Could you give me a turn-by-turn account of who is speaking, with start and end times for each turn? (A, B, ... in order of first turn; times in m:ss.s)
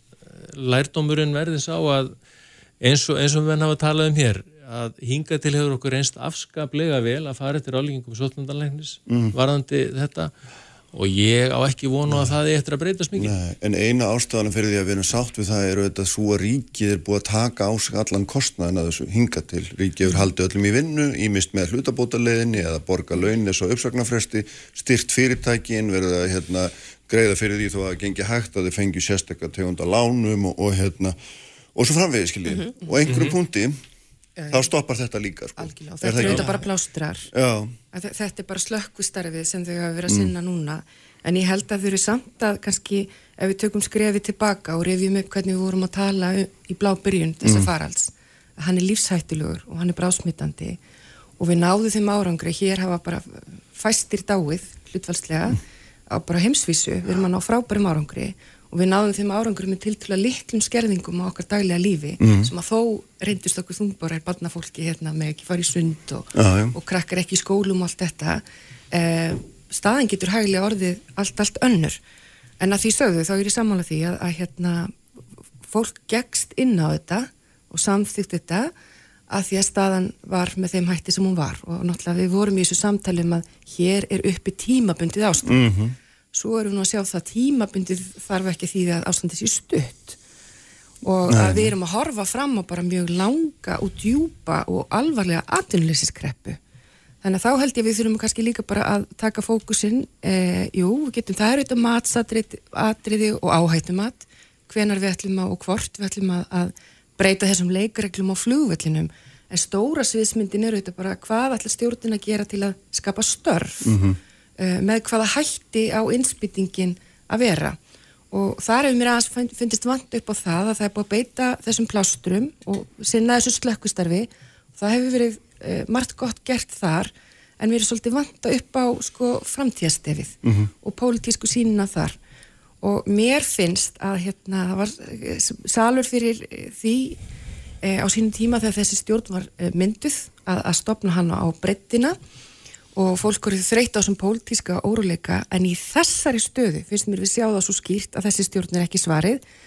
0:00.4-0:02.2 A
0:02.8-0:10.3 A
0:09.1-0:09.3 B
0:10.9-0:13.3 A
0:12.1-0:12.3 B
0:13.1-0:31.2 B
0:31.7-0:33.8 B
0:33.1-0:33.3 A
0:34.4-0:34.7 C
0:34.5-0:36.6 B
0:35.6-0:37.3 C
0:36.2-0:36.5 A
0:37.3-0:37.8 B
0:37.9-0:50.8 C
0:47.4-0:47.7 B
0:51.4-1:12.0 C
1:02.2-1:02.5 B
1:06.3-1:06.7 B
1:12.6-1:15.0 C
1:15.7-1:18.7 C
1:19.3-1:25.6 C
1:25.4-1:25.9 B
1:26.3-1:30.2 C
1:31.0-1:36.6 C
1:31.3-1:31.7 B
1:37.2-1:54.0 C
1:53.8-1:54.2 B
1:54.6-1:57.8 C
1:58.3-2:12.2 C
2:10.4-2:10.7 B
2:12.8-2:17.2 C
2:17.8-2:22.2 C
2:22.9-2:29.4 C